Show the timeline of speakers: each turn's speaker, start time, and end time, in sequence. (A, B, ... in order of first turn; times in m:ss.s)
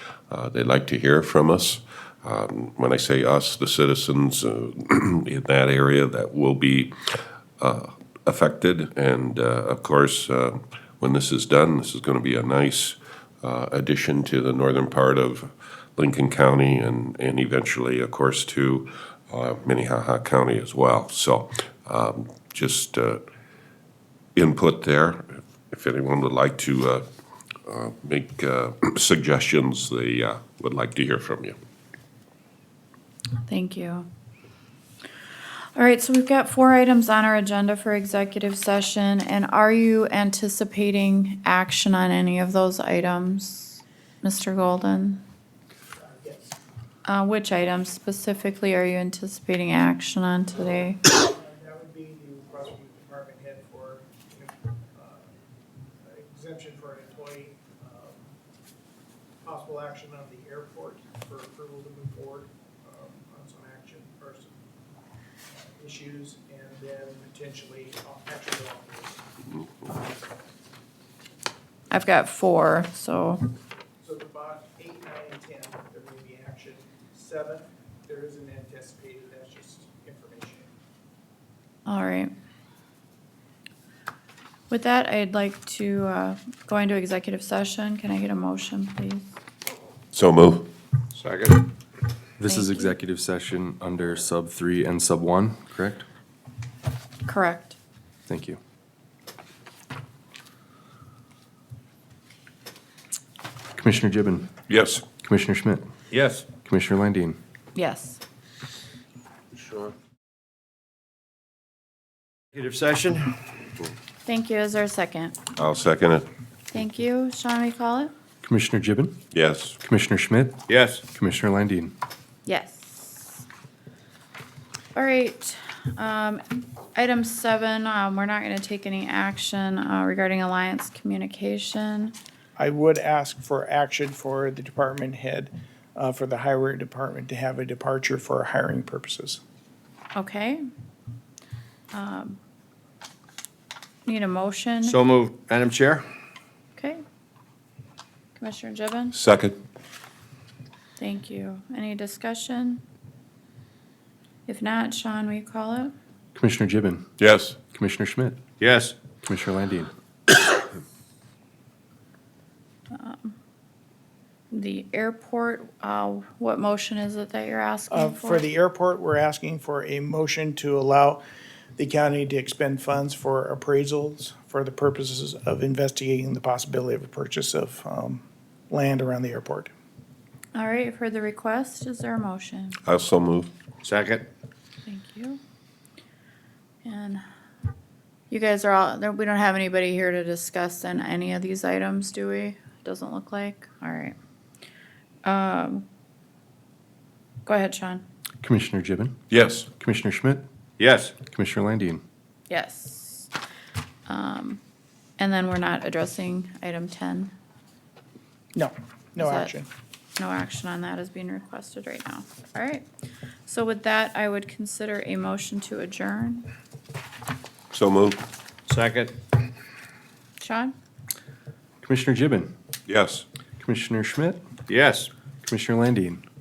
0:00.3-0:06.9 A
0:07.6-0:23.2 A
0:24.4-0:27.0 A
0:27.6-0:31.6 A
0:33.5-0:34.1 B
0:35.7-0:45.2 B
0:46.0-0:46.6 C
0:47.0-0:51.0 B
0:51.0-0:55.3 C
0:56.0-0:58.3 C
0:59.4-1:04.6 C
1:05.5-1:09.2 C
1:11.9-1:13.4 B
1:14.0-1:20.7 C
1:21.8-1:22.3 B
1:24.7-1:29.3 B
1:30.1-1:30.7 A
1:31.1-1:31.6 D
1:32.4-1:36.0 E
1:32.4-1:32.9 B
1:37.2-1:37.8 B
1:38.3-1:38.6 E
1:43.8-1:44.5 E
1:44.7-1:45.0 A
1:45.1-1:45.8 E
1:46.1-1:46.5 D
1:46.5-1:47.4 E
1:47.7-1:48.2 B
1:52.5-1:53.4 D
1:54.2-1:55.4 B
1:55.5-1:56.2 A
1:56.7-1:58.1 B
1:58.4-1:59.2 E
1:59.3-1:59.8 A
1:59.8-2:01.9 E
2:00.7-2:01.0 D
2:02.4-2:03.4 B
2:04.9-2:06.4 B
2:06.9-2:12.1 B
2:12.6-2:19.4 C
2:20.1-2:20.6 B
2:21.9-2:22.4 B
2:24.0-2:25.0 B
2:24.8-2:26.1 D
2:26.8-2:27.0 B
2:28.4-2:29.2 B
2:29.1-2:29.6 A
2:31.0-2:32.8 B
2:34.5-2:35.9 B
2:36.3-2:37.0 E
2:37.2-2:37.6 A
2:37.6-2:38.4 E
2:38.6-2:39.0 D
2:39.2-2:39.9 E
2:42.9-2:43.3 B
2:44.5-2:48.4 B
2:47.9-2:51.2 C
2:51.8-2:59.7 C
3:00.5-3:02.8 B
3:02.8-3:03.5 A
3:03.8-3:04.2 D
3:04.8-3:05.4 B
3:06.8-3:07.2 B
3:08.3-3:14.2 B
3:15.2-3:15.8 B
3:17.4-3:18.0 B
3:18.4-3:19.2 E
3:19.3-3:19.7 A
3:19.7-3:20.4 E
3:20.8-3:21.2 D
3:21.2-3:22.0 E
3:22.5-3:23.3 B
3:24.1-3:24.6 B
3:25.2-3:27.3 B
3:28.5-3:29.7 C
3:29.2-3:29.5 B
3:30.2-3:32.8 B
3:33.4-3:36.4 B
3:37.7-3:38.2 A
3:38.7-3:39.1 D
3:40.4-3:40.7 B
3:41.8-3:42.5 E
3:42.9-3:43.2 A
3:43.6-3:44.4 E
3:44.7-3:45.1 D
3:45.4-3:46.2 E